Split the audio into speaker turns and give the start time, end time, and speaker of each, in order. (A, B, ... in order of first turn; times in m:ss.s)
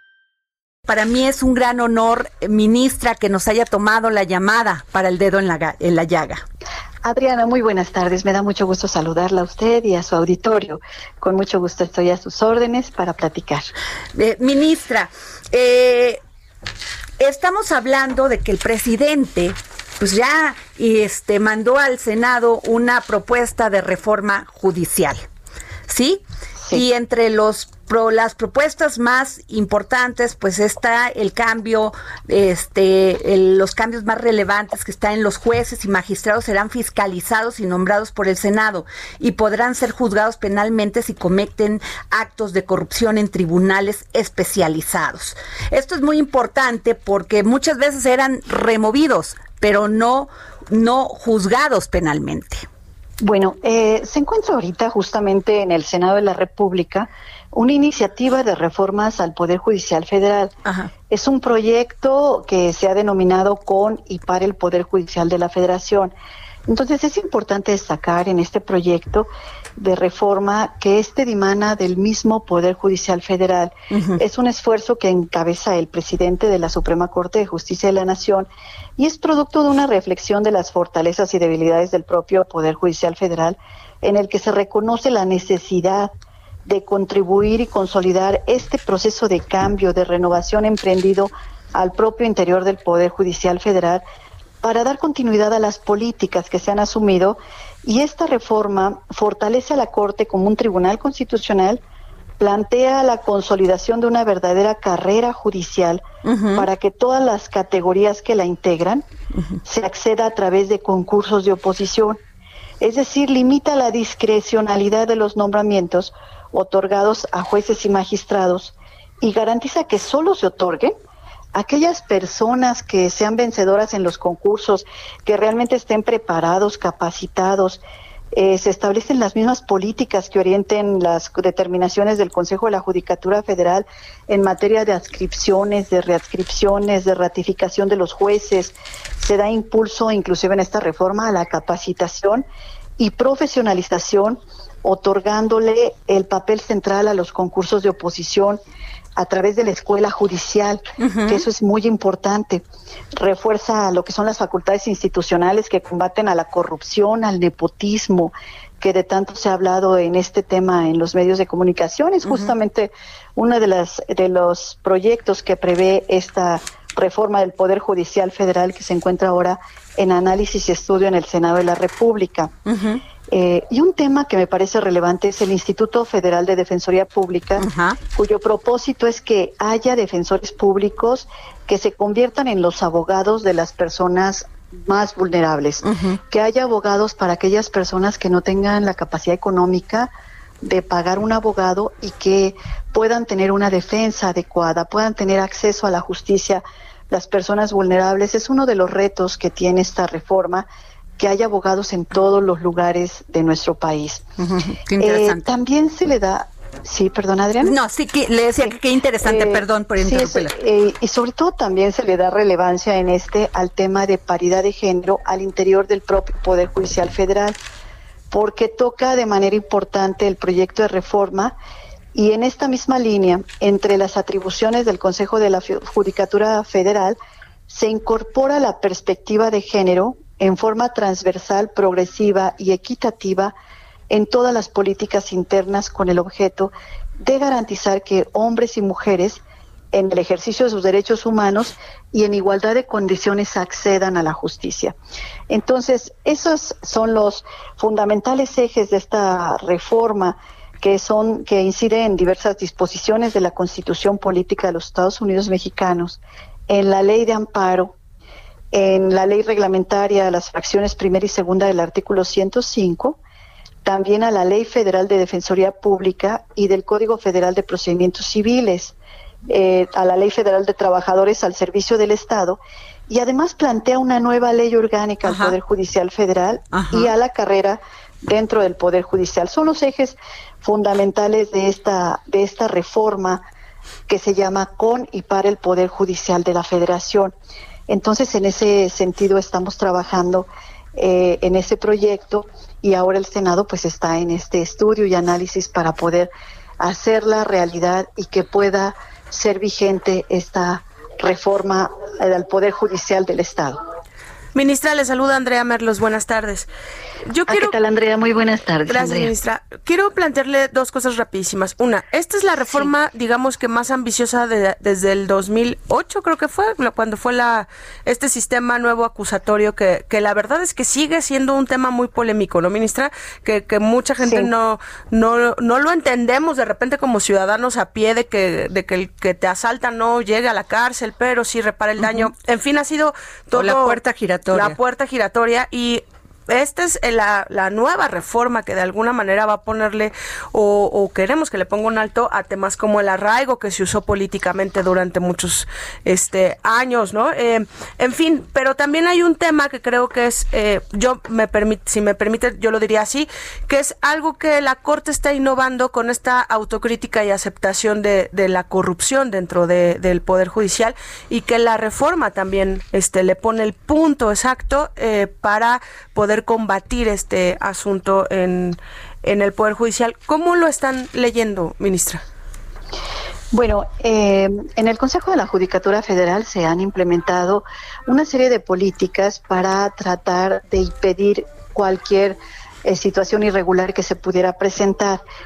0:00.9-0:06.4 A
0:07.0-0:13.7 B
0:14.2-0:16.2 A
0:17.2-0:25.2 A
0:25.9-0:52.7 A
0:53.2-1:00.5 B
1:01.1-1:06.1 B
1:06.7-1:26.1 B
1:13.9-1:14.2 A
1:26.7-1:34.0 B
1:34.6-1:41.8 B
1:42.4-1:46.0 B
1:46.2-1:46.7 A
1:46.6-1:49.1 B
1:49.6-1:52.2 B
1:52.8-2:01.0 B
2:01.5-2:07.8 B
2:08.3-2:22.4 B
2:23.0-2:28.6 B
2:29.2-2:32.6 B
2:31.0-2:31.5 A
2:33.2-2:52.5 B
2:42.2-2:42.5 A
2:52.7-2:53.0 A
2:53.3-3:10.1 B
2:57.6-2:58.0 A
3:05.8-3:06.2 A
3:10.6-3:20.7 B
3:21.2-3:24.2 B
3:24.4-3:25.5 A
3:25.0-3:27.8 B
3:27.6-3:30.5 A
3:29.2-3:37.6 B
3:38.3-3:41.6 B
3:42.1-3:47.2 B
3:47.7-3:53.5 B
3:54.1-4:05.0 B
4:05.5-4:18.0 B
4:18.7-4:23.2 B
4:23.8-4:29.0 B
4:29.5-4:43.5 B
4:35.2-4:35.6 A
4:36.7-4:37.1 A
4:44.1-4:47.3 B
4:47.9-5:03.8 B
5:04.6-5:06.7 C
5:07.3-5:07.8 C
5:07.5-5:09.3 B
5:08.9-5:34.0 C
5:24.2-5:24.5 B
5:32.0-5:32.3 A
5:33.5-5:34.8 A
5:34.5-6:12.2 C
6:13.5-6:25.2 B